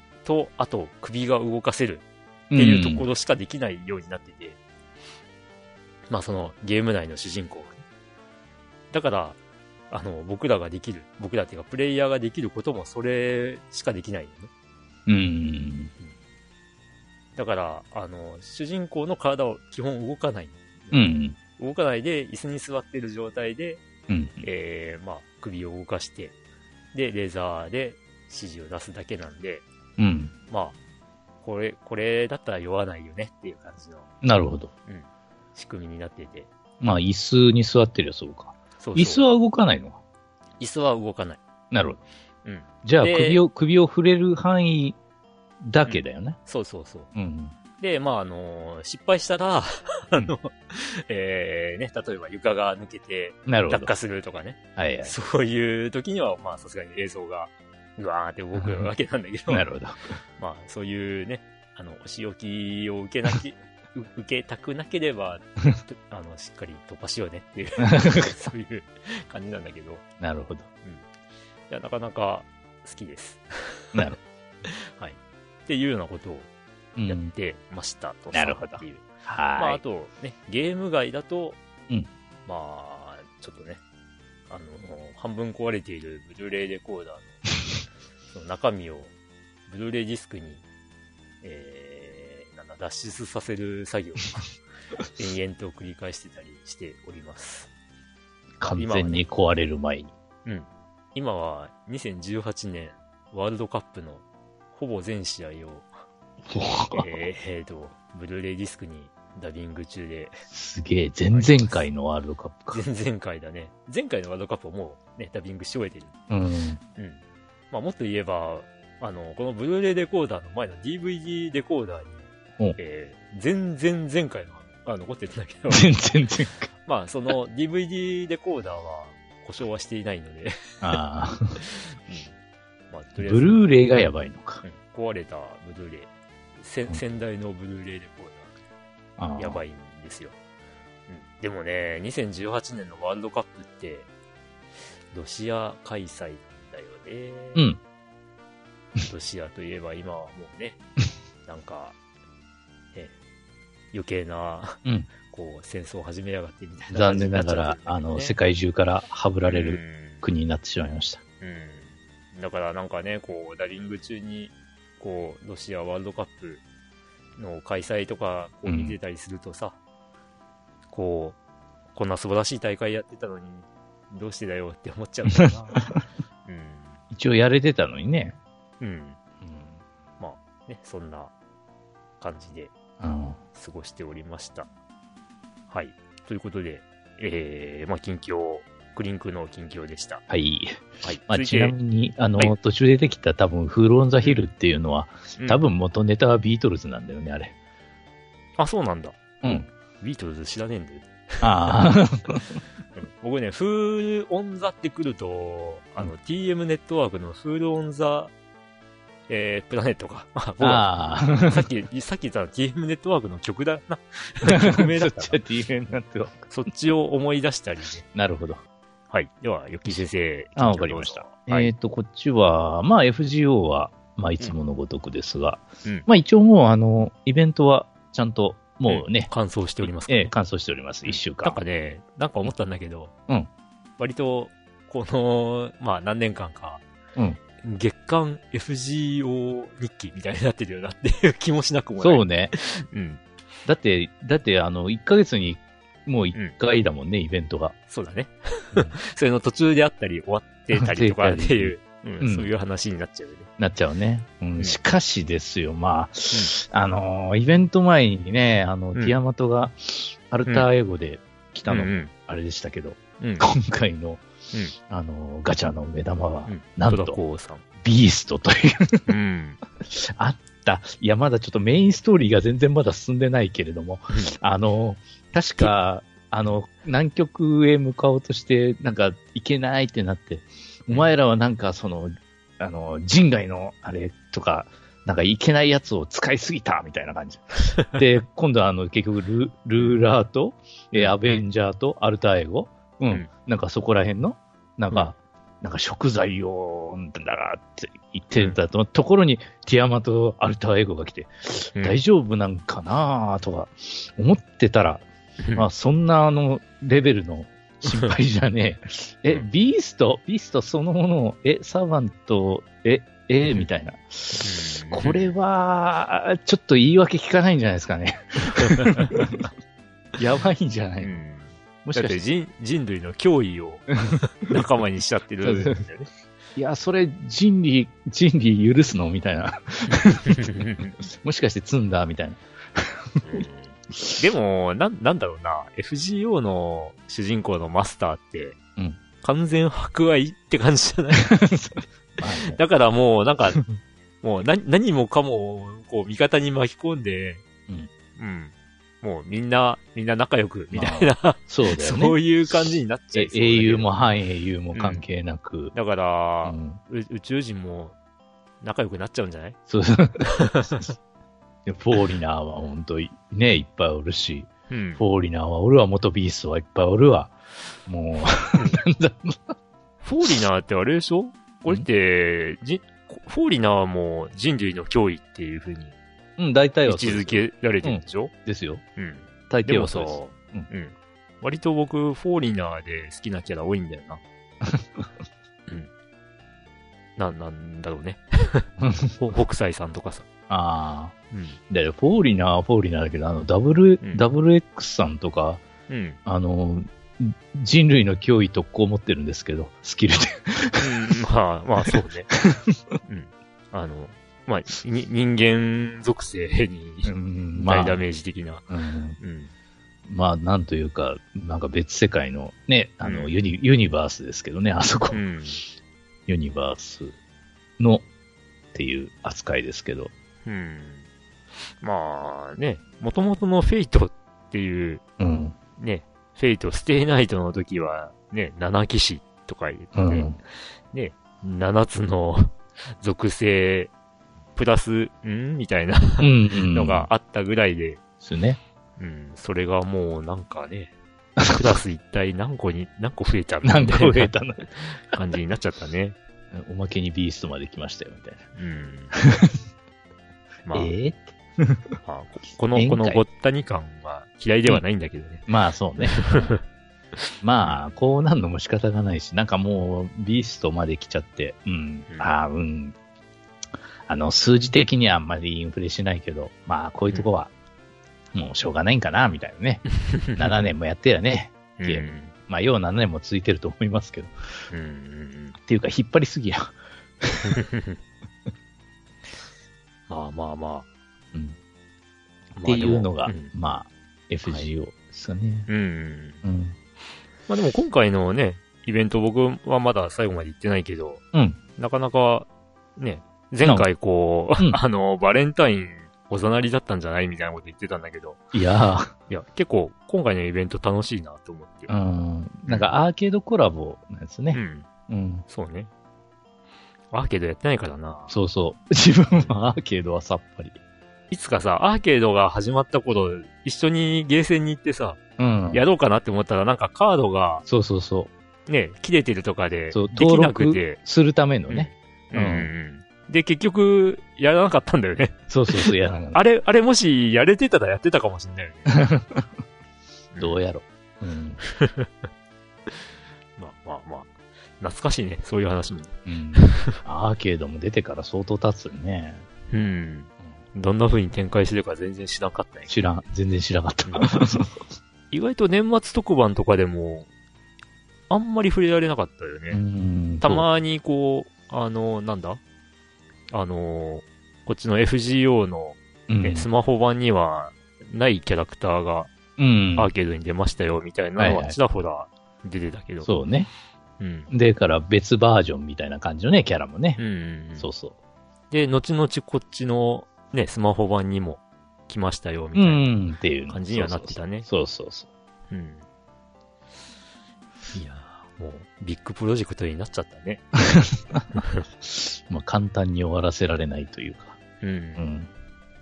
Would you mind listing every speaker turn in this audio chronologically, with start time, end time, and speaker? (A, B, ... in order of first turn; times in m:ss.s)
0:00.2-0:04.6 A
0:02.5-0:03.0 B
0:06.1-0:07.8 A
0:08.9-0:09.4 A
0:09.9-0:14.5 A
0:15.1-0:15.9 B
0:17.4-0:21.0 A
0:20.9-0:21.4 B
0:21.6-0:23.8 A
0:24.1-0:24.5 B
0:24.4-0:26.4 A
0:26.9-0:29.6 A
0:30.0-0:30.3 B
0:30.5-0:30.8 A
0:31.4-0:34.1 A
0:34.2-0:34.7 B
0:34.9-0:36.5 A
0:36.8-0:40.0 B
0:38.8-0:39.2 A
0:40.6-0:41.4 A
0:41.7-0:42.0 B
0:42.4-0:43.4 A
0:42.8-0:45.0 B
0:45.6-0:46.4 B
0:45.9-0:47.1 A
0:47.2-0:47.6 B
0:47.8-0:59.6 A
0:53.5-0:53.9 B
0:54.8-0:55.1 B
0:58.6-0:58.9 B
0:59.5-1:00.2 B
1:00.4-1:10.0 A
1:10.2-1:10.7 B
1:11.7-1:16.5 A
1:17.0-1:17.3 B
1:17.1-1:21.6 A
1:18.3-1:19.8 B
1:22.5-1:23.8 A
1:24.5-1:27.4 A
1:28.3-1:29.1 A
1:29.7-1:30.6 A
1:31.4-1:34.5 A
1:35.2-1:37.7 A
1:38.6-1:40.1 B
1:38.7-1:39.2 A
1:40.4-1:45.9 A
1:46.5-1:47.1 B
1:46.9-1:50.4 A
1:50.5-1:52.8 B
1:51.3-1:51.8 A
1:52.7-1:56.2 A
1:56.3-1:56.8 B
1:57.0-2:06.0 A
2:05.7-2:06.7 B
2:06.9-2:10.5 A
2:10.8-2:11.6 B
2:11.6-2:12.3 A
2:12.9-2:13.7 A
2:13.2-2:14.6 B
2:14.6-2:18.5 A
2:19.2-2:19.6 B
2:19.4-2:20.4 A
2:21.1-2:24.1 A
2:25.1-2:27.7 A
2:29.0-2:30.8 A
2:31.5-2:32.0 A
2:33.9-2:38.4 A
2:36.9-2:41.2 B
2:39.5-2:40.2 A
2:41.4-2:46.6 A
2:47.4-2:49.8 A
2:48.7-2:49.0 B
2:50.9-2:51.4 A
2:52.0-2:55.8 A
2:55.8-2:56.0 B
2:56.5-2:57.0 A
2:57.1-2:58.4 B
2:58.8-2:59.2 A
3:00.2-3:01.3 A
3:02.2-3:02.7 A
3:03.0-3:03.4 B
3:03.5-3:04.7 A
3:05.7-3:10.2 A
3:10.3-3:17.6 B
3:11.0-3:11.8 A
3:15.4-3:15.6 A
3:18.6-3:21.5 A
3:21.4-3:22.6 B
3:23.0-3:28.3 A
3:29.3-3:35.4 A
3:30.6-3:31.7 B
3:34.5-3:36.5 B
3:36.5-3:38.0 A
3:38.1-3:38.6 B
3:39.1-3:41.7 A
3:40.6-3:49.3 B
3:48.9-3:50.3 A
3:50.0-3:51.6 B
3:51.1-3:53.1 A
3:54.0-3:56.8 A
3:57.6-4:03.2 A
4:02.0-4:02.5 B
4:03.7-4:07.8 B
4:07.9-4:13.5 A
4:10.8-4:12.5 B
4:13.6-4:24.2 B
4:21.7-4:22.1 A
4:23.2-4:23.5 A
4:24.9-4:27.2 B
4:26.5-4:27.6 A
4:27.8-4:29.1 B
4:29.1-4:29.6 A
4:29.8-5:19.4 B
4:51.0-4:51.4 A
5:05.4-5:05.7 A
5:07.8-5:08.1 A
5:14.4-5:15.3 A
5:18.6-5:19.5 A
5:20.2-5:21.2 B
5:21.0-5:26.1 A
5:21.8-5:22.2 B
5:25.4-5:25.8 B
5:26.6-5:33.4 B
5:29.9-5:31.0 A
5:33.2-5:38.6 A
5:39.2-5:41.4 A
5:41.3-5:42.6 B
5:42.5-5:43.6 A
5:44.2-5:47.4 A
5:48.2-5:53.9 A
5:50.7-5:52.5 B
5:53.1-5:55.7 B
5:54.7-5:55.0 A
5:55.7-5:58.0 A
5:56.4-5:56.8 B
5:58.6-5:59.6 A
5:59.7-6:00.4 B
6:00.2-6:00.9 A
6:01.7-6:07.3 B
6:04.7-6:05.0 A
6:07.9-6:09.5 B
6:10.0-6:16.0 A
6:16.4-6:18.8 B
6:16.9-6:18.3 A
6:19.0-6:24.2 A
6:19.5-6:20.7 B
6:24.6-6:25.1 B
6:27.2-6:30.3 A
6:28.8-6:29.2 B
6:30.5-6:31.1 B
6:31.3-6:31.6 A
6:31.7-6:35.6 B
6:35.9-6:36.2 A
6:36.3-6:40.9 B
6:40.8-6:42.3 A
6:41.9-6:42.8 B
6:43.0-6:48.7 A
6:47.0-6:48.0 B
6:48.7-6:49.2 B
6:49.2-6:49.5 A
6:50.1-6:55.2 B
6:53.0-6:53.3 A
6:55.1-6:55.6 A
6:56.3-6:57.1 B
6:57.8-6:58.0 B
6:58.7-7:00.1 B
7:00.4-7:01.1 A
7:01.8-7:05.0 A
7:05.2-7:05.6 B
7:05.8-7:10.4 A
7:10.0-7:10.4 B
7:10.9-7:13.9 A
7:14.6-7:18.0 A
7:16.2-7:17.1 B
7:18.2-7:18.6 B
7:19.0-7:20.9 A
7:21.4-7:26.2 A
7:23.6-7:25.2 B
7:26.5-7:28.4 B
7:28.6-7:29.1 A
7:29.1-7:29.6 B
7:30.7-7:30.9 A
7:30.7-7:31.9 B
7:32.0-7:35.5 A
7:32.8-7:33.2 B
7:35.5-7:36.6 B
7:36.0-7:36.6 A
7:37.4-7:43.0 B
7:44.1-7:47.5 B
7:48.3-7:49.8 B
7:50.0-7:50.7 A
7:50.4-7:54.3 B
7:51.8-7:52.3 A
7:54.7-7:55.6 A
7:55.6-7:57.6 B
7:57.5-7:58.0 A
8:00.1-8:00.9 A
8:02.6-8:03.5 A
8:02.6-8:05.7 B
8:05.7-8:06.4 A
8:06.4-8:06.8 B
8:07.5-8:11.2 A
8:11.3-8:11.6 B
8:11.8-8:18.4 A
8:18.5-8:19.1 B
8:19.3-8:21.9 A
8:21.9-8:25.4 B
8:22.7-8:22.9 A
8:24.5-8:24.9 A
8:25.5-8:25.9 A
8:27.1-8:28.4 A
8:28.3-8:30.8 B
8:31.3-8:35.2 A
8:35.4-8:35.8 B
8:35.7-8:37.6 A
8:37.7-8:38.3 B
8:38.7-8:41.0 A
8:39.9-8:42.7 B
8:41.7-8:49.0 A
8:45.5-8:46.4 B
8:48.9-8:49.4 B
8:50.3-8:50.6 A
8:50.4-8:51.6 B
8:51.6-8:52.2 A
8:53.6-8:57.0 A
8:56.3-8:59.4 B
8:59.7-9:02.9 A
9:02.9-9:04.7 B
9:04.1-9:04.4 A
9:05.3-9:07.3 A
9:08.3-9:09.8 A
9:09.7-9:10.7 B
9:10.4-9:12.6 A
9:13.5-9:19.3 A
9:16.3-9:16.7 B
9:19.6-9:20.1 B
9:20.0-9:23.3 A
9:21.4-9:21.8 B
9:23.2-9:23.7 B
9:24.2-9:24.5 A
9:24.5-9:27.2 B
9:27.2-9:27.9 A
9:27.8-9:28.2 B
9:28.7-9:33.1 A
9:32.8-9:35.3 B
9:33.7-9:34.7 A
9:35.7-9:36.0 A
9:37.9-9:40.6 A
9:40.9-9:41.4 B
9:41.6-9:41.8 A
9:42.0-9:44.6 B
9:44.8-9:45.2 A
9:45.2-9:45.5 B